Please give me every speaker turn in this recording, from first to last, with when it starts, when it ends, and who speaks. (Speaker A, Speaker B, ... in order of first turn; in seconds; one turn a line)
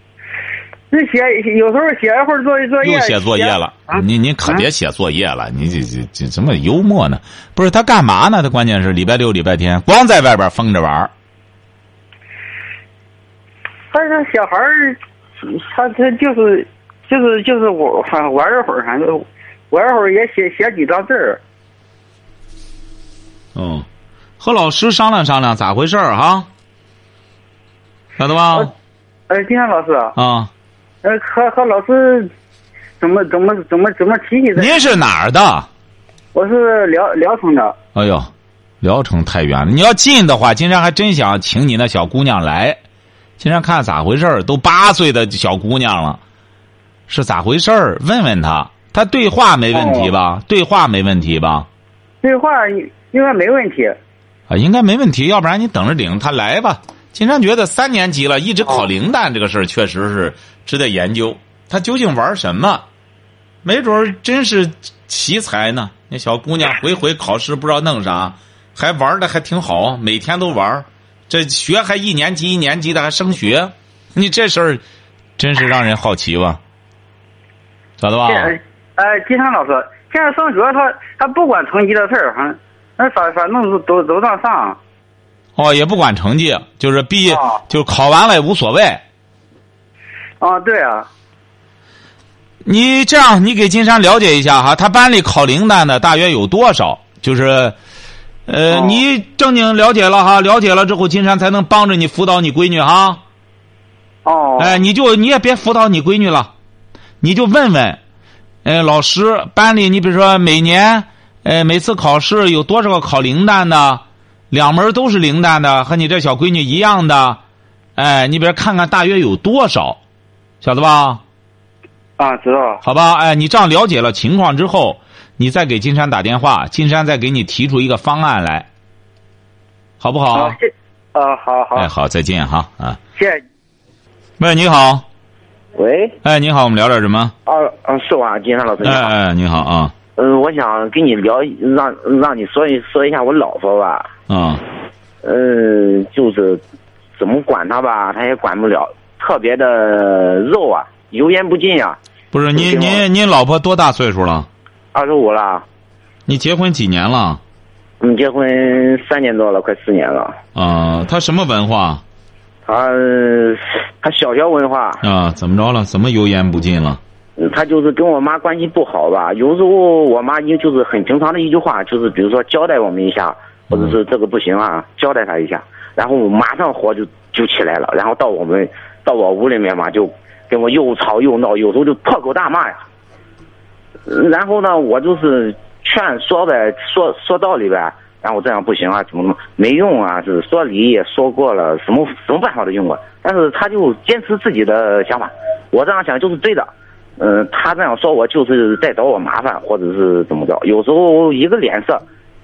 Speaker A: 0.9-3.5
Speaker B: 2.8-11.1
Speaker A: 13.9-21.4
Speaker B: 23.5-23.9
Speaker B: 24.4-26.5
Speaker B: 28.2-28.7
Speaker A: 29.3-30.1
Speaker B: 30.1-30.5
Speaker A: 31.0-32.3
Speaker A: 33.0-34.8
Speaker B: 34.5-35.7
Speaker A: 36.3-37.8
Speaker B: 37.9-38.3
Speaker B: 38.8-42.8
Speaker B: 43.4-46.2
Speaker B: 47.1-51.7
Speaker A: 49.7-50.1
Speaker A: 52.2-54.0
Speaker B: 54.5-62.8
Speaker B: 63.6-74.8
Speaker B: 75.4-76.6
Speaker B: 78.0-78.5
Speaker A: 78.2-84.8
Speaker B: 85.5-89.0
Speaker A: 87.3-87.6
Speaker A: 90.4-91.1
Speaker B: 92.6-97.7
Speaker B: 98.5-103.2
Speaker A: 98.7-99.0
Speaker A: 104.2-104.8
Speaker B: 104.6-106.5
Speaker B: 107.2-108.0
Speaker B: 108.6-117.4
Speaker B: 118.0-120.0
Speaker B: 120.6-121.2
Speaker A: 122.2-122.8
Speaker B: 122.8-128.7
Speaker B: 130.0-130.6
Speaker A: 130.3-131.9
Speaker B: 131.7-133.0
Speaker A: 133.2-133.4
Speaker B: 134.4-135.0
Speaker C: 135.8-136.2
Speaker B: 136.2-137.3
Speaker C: 137.4-139.1
Speaker B: 138.8-139.9
Speaker C: 140.2-144.1
Speaker B: 144.3-144.6
Speaker C: 145.2-146.6
Speaker C: 147.2-152.0
Speaker B: 152.3-154.5
Speaker C: 152.5-153.0
Speaker C: 154.9-155.6
Speaker B: 156.3-157.4
Speaker C: 158.0-160.4
Speaker B: 160.5-162.0
Speaker C: 162.7-165.0
Speaker B: 165.0-167.0
Speaker C: 167.4-182.8
Speaker C: 184.1-202.0